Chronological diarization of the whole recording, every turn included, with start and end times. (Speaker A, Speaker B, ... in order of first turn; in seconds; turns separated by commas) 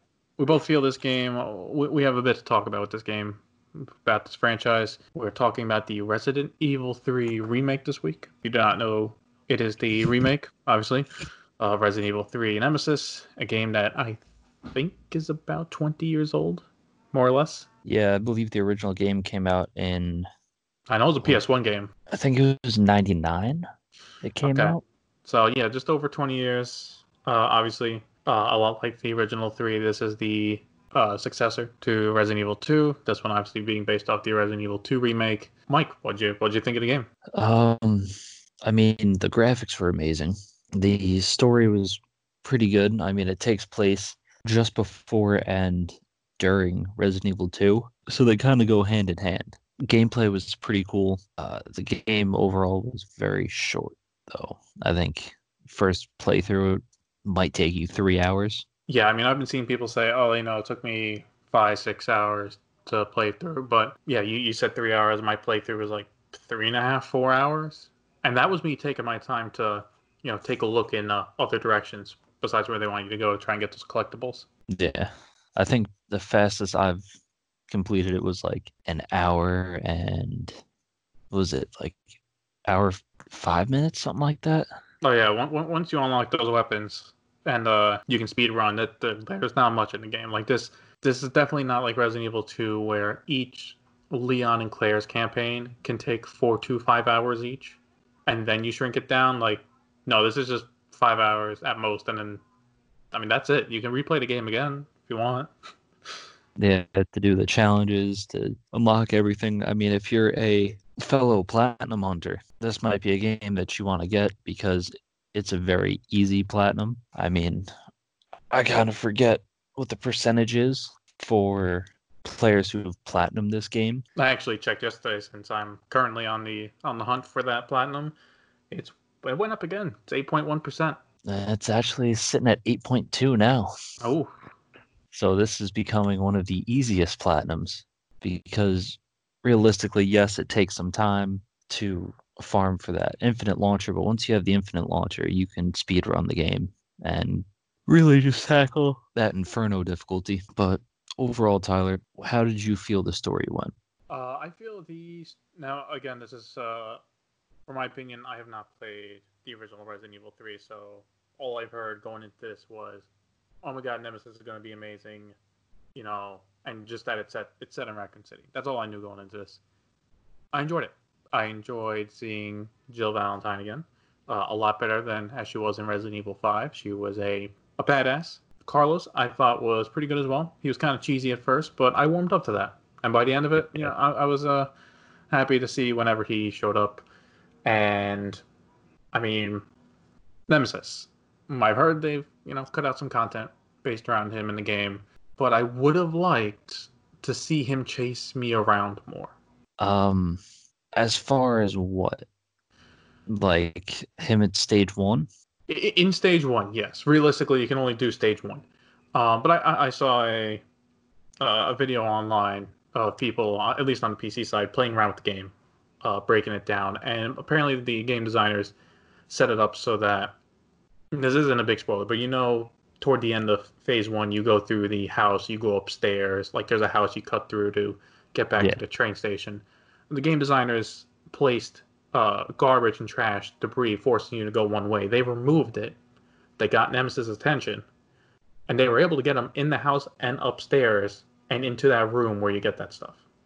Speaker A: 0.4-11.1, Speaker A: 11.6-17.7, Speaker B: 17.8-20.2, Speaker A: 20.9-21.9, Speaker B: 22.1-23.6, Speaker B: 24.2-24.8, Speaker A: 24.4-37.1, Speaker B: 37.3-38.1, Speaker B: 38.6-58.6, Speaker A: 58.9-74.5, Speaker B: 74.7-77.0, Speaker B: 77.7-80.6, Speaker B: 81.3-82.0, Speaker B: 82.7-84.7, Speaker A: 85.0-102.4, Speaker A: 103.1-105.5, Speaker B: 106.6-117.7, Speaker B: 118.5-124.0, Speaker A: 124.2-128.2, Speaker A: 128.7-131.0, Speaker B: 131.2-133.7, Speaker A: 134.0-134.3, Speaker B: 135.1-153.7, Speaker A: 154.1-157.0, Speaker A: 157.7-163.1, Speaker A: 163.6-165.3, Speaker A: 165.9-169.6, Speaker A: 170.5-184.7, Speaker A: 185.3-187.0, Speaker A: 187.6-188.4, Speaker A: 189.1-189.7, Speaker A: 190.5-199.3, Speaker B: 199.8-200.4, Speaker B: 200.9-202.2, Speaker B: 203.3-205.3, Speaker A: 205.7-210.6, Speaker A: 211.4-218.7, Speaker A: 219.3-220.3, Speaker A: 221.1-235.9, Speaker A: 236.6-237.8, Speaker A: 238.7-243.2